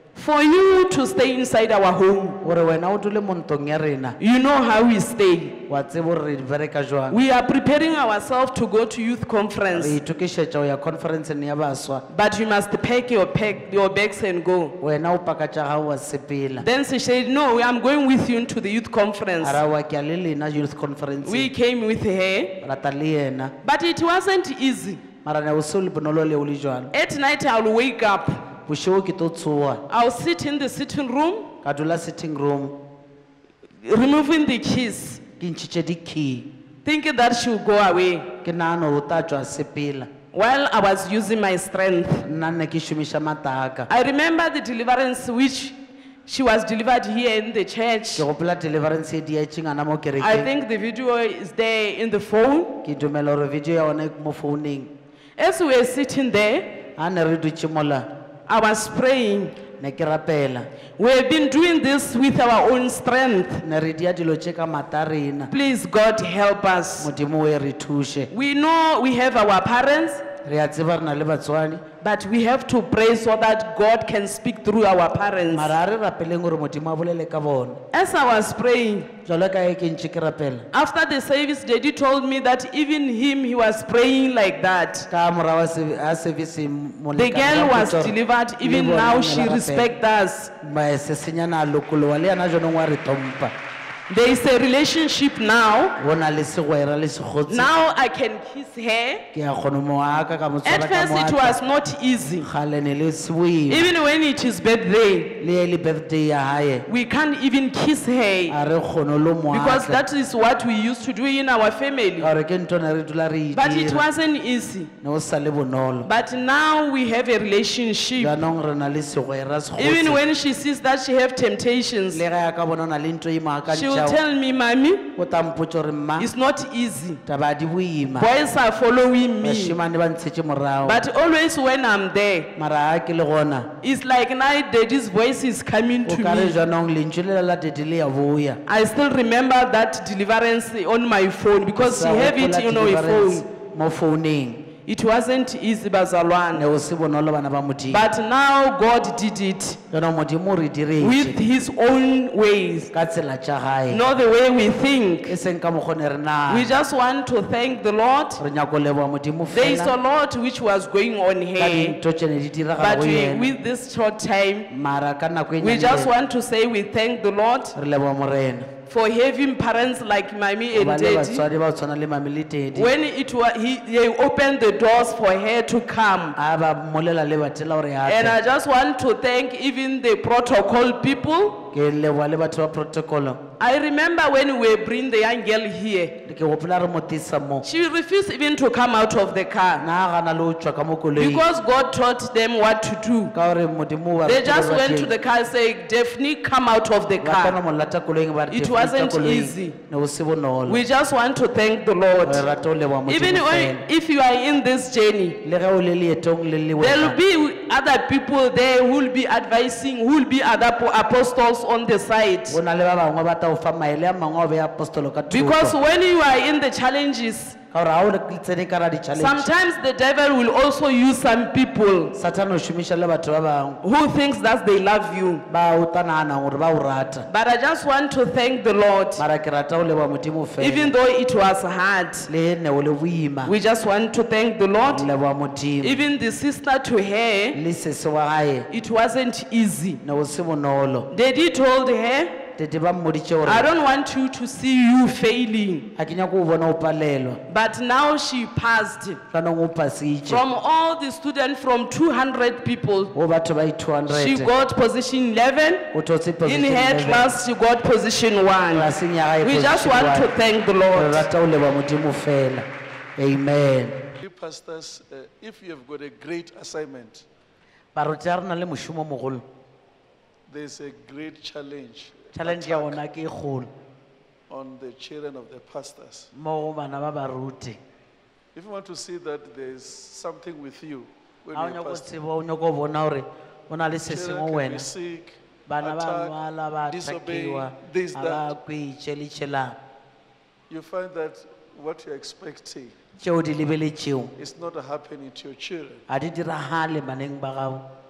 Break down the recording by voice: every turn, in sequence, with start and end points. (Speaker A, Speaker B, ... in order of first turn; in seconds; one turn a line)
Speaker A: 0.1-2.4
Speaker B: 2.4-4.2
Speaker A: 4.2-5.6
Speaker B: 5.7-7.2
Speaker A: 7.1-10.0
Speaker B: 9.7-12.0
Speaker A: 12.1-14.8
Speaker B: 14.8-16.6
Speaker A: 16.6-19.6
Speaker B: 19.4-21.5
Speaker A: 21.2-22.6
Speaker B: 22.6-23.6
Speaker A: 23.6-25.0
Speaker B: 25.2-26.9
Speaker A: 26.9-28.4
Speaker B: 28.7-29.8
Speaker A: 29.9-31.5
Speaker B: 31.6-32.8
Speaker A: 33.8-35.2
Speaker B: 35.4-36.5
Speaker A: 36.9-38.3
Speaker B: 38.4-40.1
Speaker A: 40.3-42.3
Speaker B: 42.2-43.9
Speaker A: 43.9-48.2
Speaker B: 48.2-50.5
Speaker A: 50.2-52.8
Speaker B: 52.8-54.9
Speaker A: 55.4-56.7
Speaker B: 57.0-58.1
Speaker A: 58.5-59.6
Speaker B: 59.8-60.7
Speaker A: 61.0-63.6
Speaker B: 63.6-65.5
Speaker A: 65.5-67.1
Speaker B: 67.0-68.3
Speaker A: 68.3-70.2
Speaker B: 70.4-71.8
Speaker A: 72.0-75.7
Speaker B: 75.5-77.8
Speaker A: 77.9-79.1
Speaker B: 79.2-80.7
Speaker A: 80.7-85.1
Speaker B: 85.1-89.9
Speaker A: 87.2-90.5
Speaker B: 90.6-93.5
Speaker A: 94.1-96.0
Speaker B: 96.0-97.7
Speaker A: 97.5-99.2
Speaker B: 99.3-101.6
Speaker A: 100.7-102.5
Speaker B: 102.4-103.9
Speaker A: 103.7-105.4
Speaker B: 105.4-106.9
Speaker A: 106.9-108.6
Speaker B: 108.5-110.0
Speaker A: 109.5-112.3
Speaker B: 112.2-114.1
Speaker A: 113.5-114.9
Speaker B: 115.0-116.1
Speaker A: 116.0-118.4
Speaker B: 118.2-120.2
Speaker A: 119.8-122.2
Speaker B: 122.1-124.2
Speaker A: 123.7-125.1
Speaker B: 125.2-126.3
Speaker A: 126.2-127.2
Speaker B: 127.2-128.3
Speaker A: 128.2-129.8
Speaker B: 129.4-131.0
Speaker A: 130.8-132.5
Speaker B: 132.6-133.7
Speaker A: 133.8-136.6
Speaker B: 136.1-138.6
Speaker A: 138.7-143.5
Speaker B: 141.8-144.7
Speaker A: 144.9-146.7
Speaker B: 146.5-148.1
Speaker A: 147.9-149.8
Speaker B: 149.9-151.4
Speaker A: 151.0-152.9
Speaker B: 152.9-154.0
Speaker A: 153.9-155.3
Speaker B: 155.3-156.7
Speaker A: 156.5-158.4
Speaker B: 158.4-160.0
Speaker A: 159.5-162.0
Speaker B: 161.6-163.5
Speaker A: 162.8-164.7
Speaker B: 164.7-166.1
Speaker A: 165.6-167.7
Speaker B: 167.8-168.7
Speaker A: 168.9-171.4
Speaker B: 170.7-172.9
Speaker A: 172.8-176.4
Speaker B: 176.4-178.4
Speaker A: 178.1-181.7
Speaker B: 181.7-183.4
Speaker A: 183.6-186.2
Speaker B: 186.2-187.7
Speaker A: 187.6-189.8
Speaker B: 189.8-191.4
Speaker A: 191.2-193.3
Speaker B: 193.3-195.1
Speaker A: 194.2-197.6
Speaker B: 197.2-200.8
Speaker A: 198.5-199.8
Speaker A: 200.7-202.5
Speaker B: 202.2-203.8
Speaker A: 203.1-205.4
Speaker B: 205.4-207.2
Speaker A: 206.8-212.6
Speaker B: 212.5-215.8
Speaker A: 215.3-217.6
Speaker B: 217.7-219.5
Speaker A: 219.2-222.1
Speaker B: 222.1-223.8
Speaker A: 223.8-225.4
Speaker B: 225.5-227.3
Speaker A: 227.3-229.2
Speaker B: 229.2-230.9
Speaker A: 230.6-232.3
Speaker B: 232.3-233.5
Speaker A: 233.5-235.1
Speaker B: 234.9-236.0
Speaker A: 235.8-237.6
Speaker B: 237.5-238.7
Speaker A: 238.7-240.0
Speaker B: 240.0-241.1
Speaker A: 241.1-242.4
Speaker B: 242.6-243.7
Speaker A: 243.4-245.9
Speaker B: 246.0-247.4
Speaker A: 247.5-249.2
Speaker B: 249.3-250.4
Speaker A: 250.3-253.1
Speaker B: 253.1-254.5
Speaker A: 254.1-255.9
Speaker B: 255.9-257.4
Speaker A: 256.5-258.9
Speaker B: 258.7-260.3
Speaker A: 259.4-261.2
Speaker B: 260.9-264.1
Speaker C: 264.2-267.3
Speaker B: 267.9-269.4
Speaker C: 270.5-273.0
Speaker B: 272.4-273.7
Speaker C: 274.5-276.3
Speaker B: 276.4-277.8
Speaker C: 278.6-282.1
Speaker B: 281.5-284.9
Speaker C: 284.1-288.5
Speaker B: 285.7-289.8
Speaker C: 290.7-292.9
Speaker B: 293.2-294.3
Speaker C: 294.4-296.0
Speaker B: 296.1-297.9